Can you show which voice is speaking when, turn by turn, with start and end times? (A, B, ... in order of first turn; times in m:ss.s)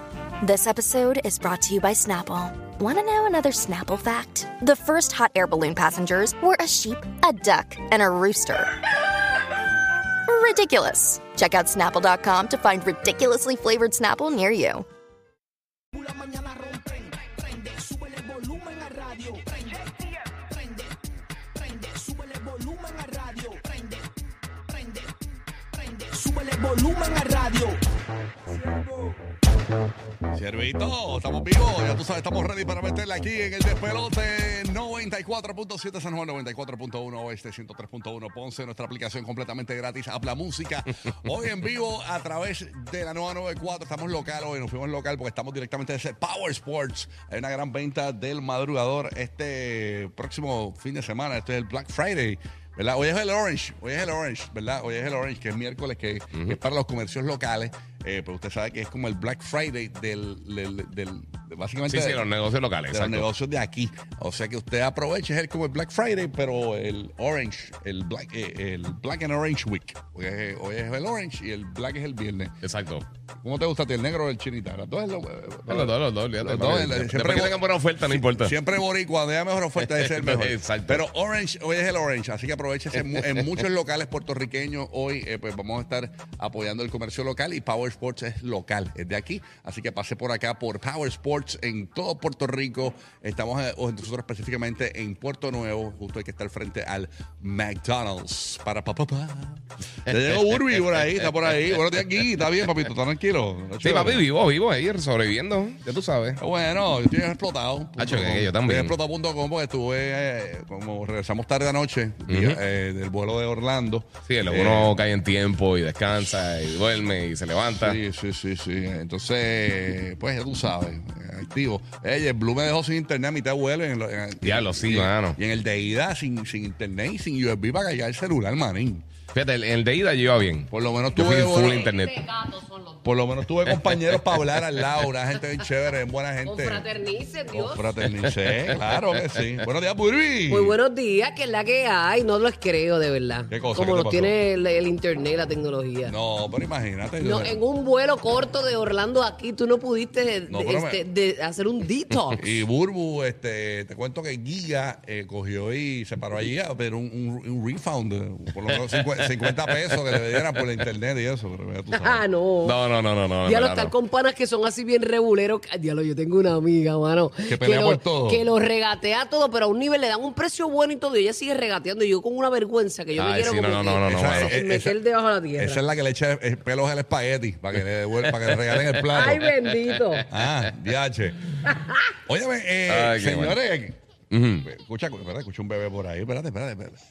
0:00.4-0:08.7 A
0:10.3-0:14.8 A
0:16.0-0:19.9 B
0:20.5-0:20.8 B
0:21.7-0:24.0 B
0:26.0-0:27.8 B
0:30.3-1:02.3 C
1:01.9-1:03.3 D
1:02.9-1:12.6 C
1:12.6-1:13.0 D
1:13.4-1:44.2 C
1:15.7-1:18.6 D
1:19.8-1:21.0 D
1:43.8-1:46.4 D
1:46.4-1:54.9 C
1:48.0-1:49.0 D
1:52.3-1:52.6 D
1:54.3-1:58.0 D
1:57.8-2:09.0 C
2:04.4-2:05.4 D
2:09.3-2:12.2 D
2:10.7-2:11.8 C
2:11.5-2:13.0 E
2:13.0-2:16.9 C
2:13.6-2:14.8 D
2:16.4-2:17.8 E
2:17.5-2:20.8 C
2:18.2-2:19.4 D
2:20.5-2:26.1 E
2:23.5-2:24.4 C
2:26.0-2:27.6 C
2:27.2-2:32.5 E
2:30.5-2:31.0 C
2:32.4-2:42.2 C
2:38.7-2:40.7 D
2:42.0-2:42.8 E
2:42.6-2:43.9 D
2:43.4-2:55.8 E
2:47.4-2:48.4 C
2:53.1-2:54.6 D
2:54.0-2:55.0 C
2:55.6-2:59.4 C
2:58.2-2:59.5 D
2:59.1-3:00.3 E
3:00.3-3:01.4 C
3:01.7-3:02.0 E
3:02.2-3:04.0 C
3:02.9-3:03.6 D
3:04.3-3:04.6 D
3:04.6-3:07.0 C